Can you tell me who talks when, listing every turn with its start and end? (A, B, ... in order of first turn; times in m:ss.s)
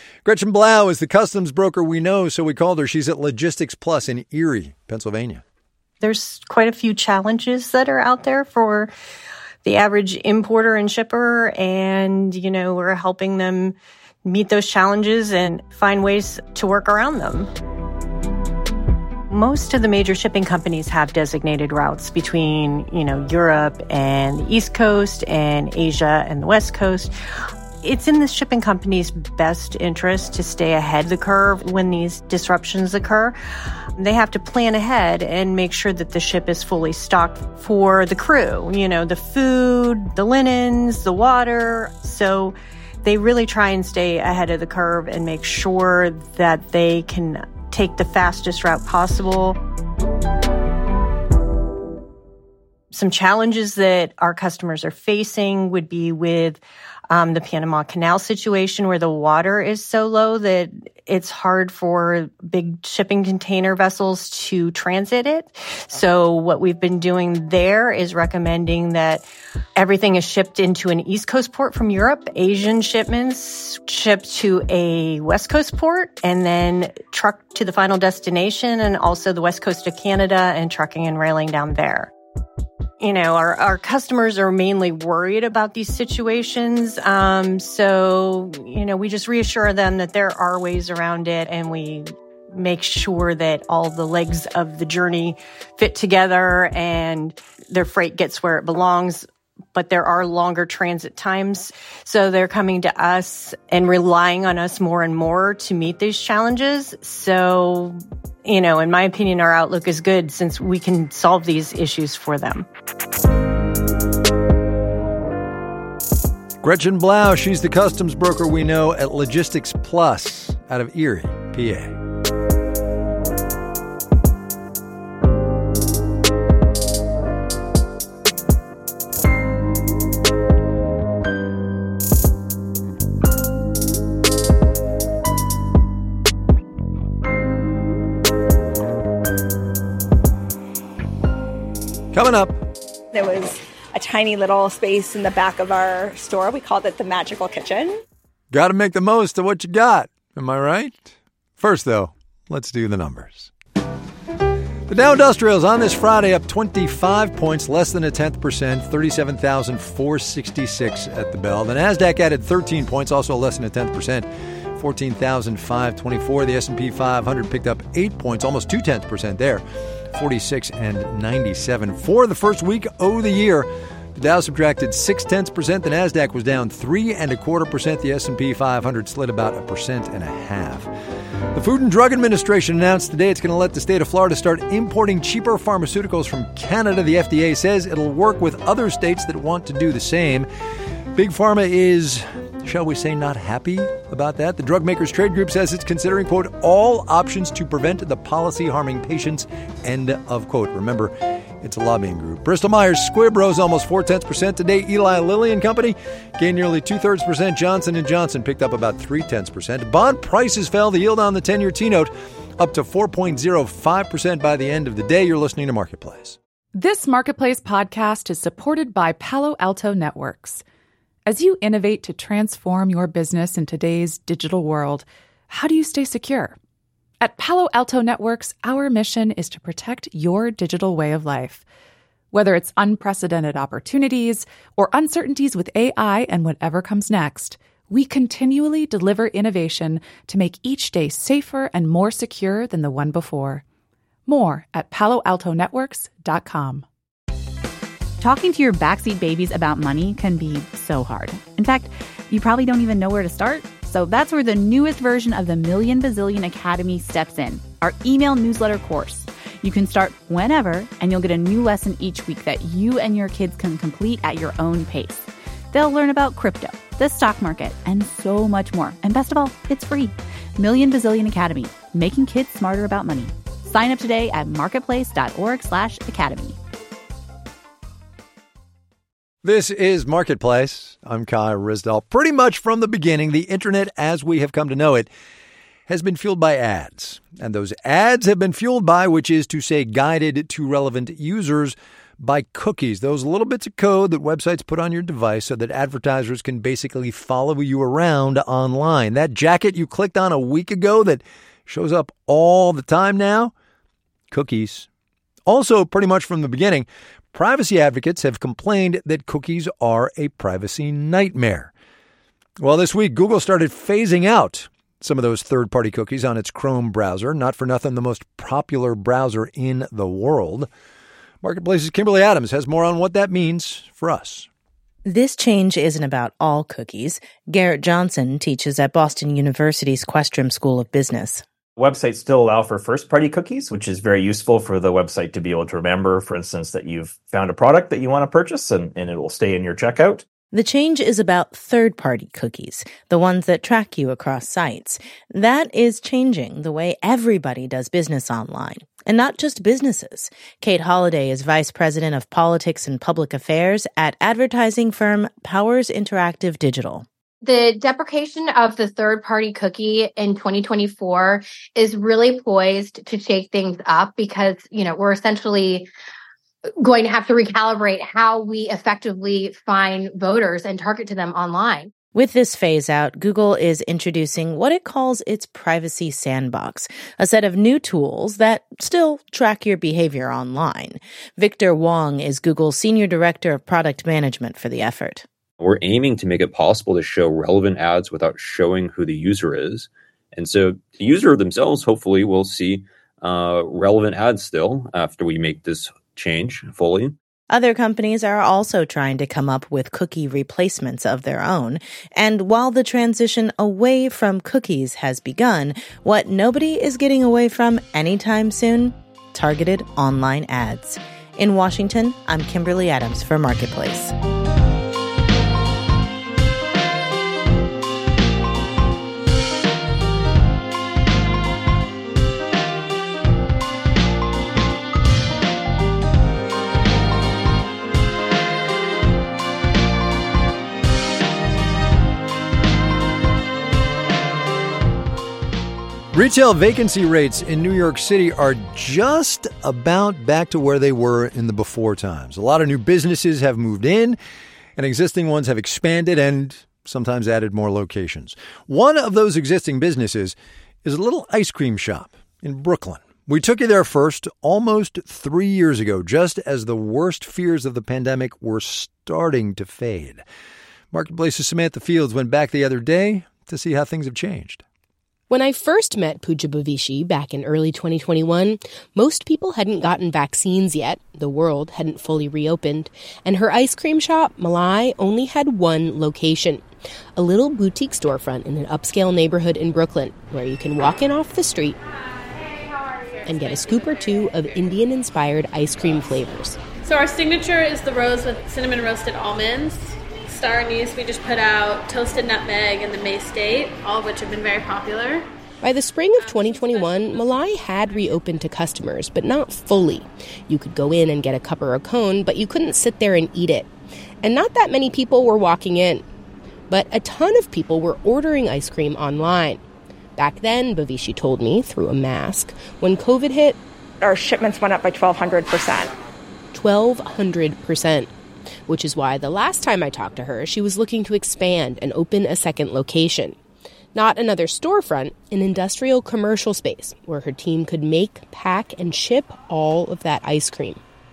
0:00.2-0:05.4 A
0:06.0-0:08.9 B
0:09.6-0:17.5 B
0:19.3-0:27.1 B
0:27.8-0:33.4 B
0:34.0-0:49.6 B
0:52.9-1:22.1 B
1:23.0-1:52.7 B
1:56.6-2:02.0 A
2:22.1-2:22.6 A
2:23.1-2:28.0 C
2:28.5-2:33.5 A
2:34.9-3:00.9 A
3:01.5-3:10.5 A
3:11.1-3:36.4 A
3:36.8-3:40.6 D
3:41.3-3:46.6 D
3:47.2-3:51.6 D
3:52.3-4:03.6 D
4:04.3-4:06.8 D
4:08.2-4:36.6 E
4:39.4-4:45.1 A
4:45.9-5:03.5 A
5:04.3-5:04.9 A
5:05.5-5:11.7 A
5:12.6-5:20.7 A
5:21.4-5:24.5 A
5:25.0-5:31.4 F
5:31.8-5:40.2 G
5:40.5-5:57.1 F
5:57.4-6:05.9 H
6:06.8-6:11.9 H
6:12.1-6:25.2 F
6:25.6-6:37.2 I
6:37.5-6:54.1 F
7:16.1-7:24.2 A
7:24.8-7:40.2 A
7:40.9-7:44.6 A
7:45.3-7:56.6 J
7:57.2-8:01.8 J
8:03.2-8:03.9 K
8:03.3-8:06.6 J
8:06.8-8:15.3 K
8:15.6-8:23.7 J
8:24.2-8:26.0 J
8:26.7-8:29.6 J
8:30.2-8:33.6 J
8:34.0-8:36.0 C
8:36.5-8:38.1 J
8:38.7-8:43.4 J
8:44.0-8:50.8 J